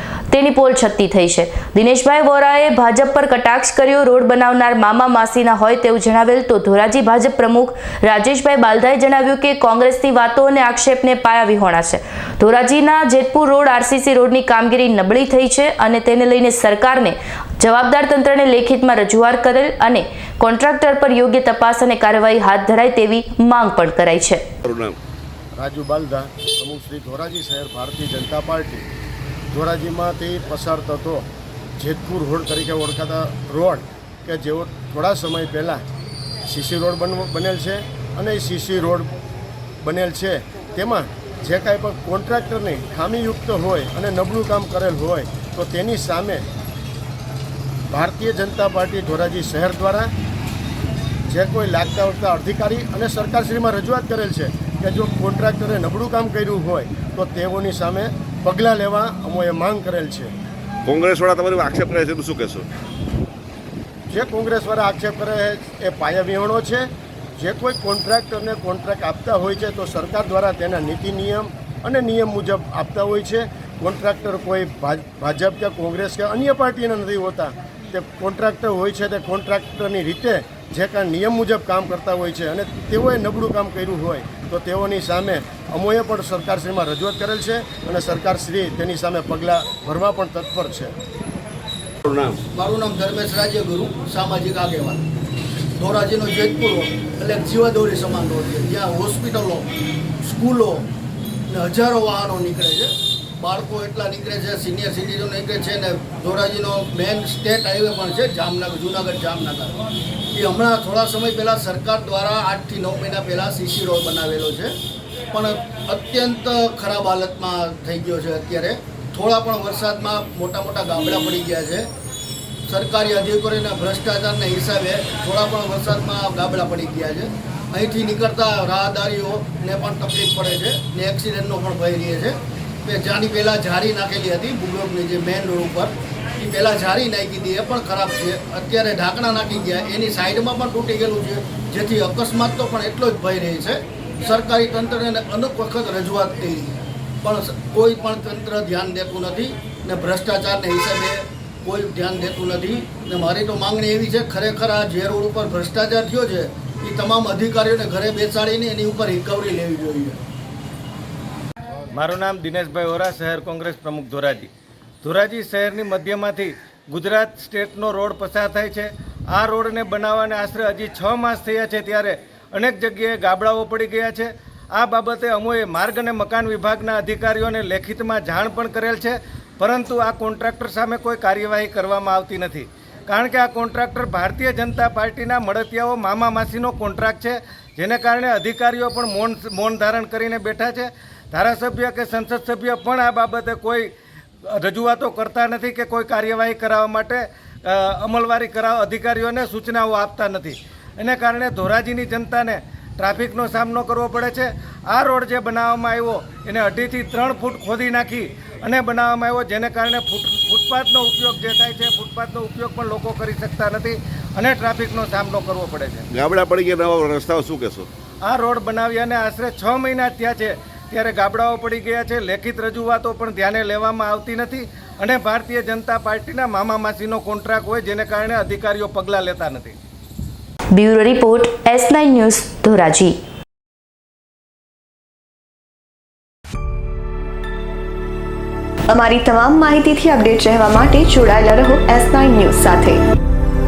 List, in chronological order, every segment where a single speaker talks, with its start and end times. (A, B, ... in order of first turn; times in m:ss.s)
0:00.3-0:24.4 A
0:24.6-0:25.0 B
0:25.6-0:28.8 C
0:29.5-0:31.2 C
0:31.8-0:35.8 C
0:36.4-0:39.1 C
0:39.8-0:46.4 C
0:47.9-0:50.1 C
0:51.3-1:00.3 C
1:00.8-1:02.7 B
1:04.1-1:30.9 C
1:32.0-1:32.4 B
1:32.5-1:35.0 D
1:35.8-1:39.7 D
1:40.2-1:40.9 D
1:41.5-1:49.8 D
1:50.3-1:54.7 D
1:55.3-2:01.9 D
2:02.7-2:40.2 D
2:41.9-2:44.5 E
2:45.0-3:13.9 E
3:14.4-3:36.1 E
3:36.1-3:37.9 B
3:38.2-3:49.8 E
3:50.7-3:53.2 A
3:58.9-4:03.0 F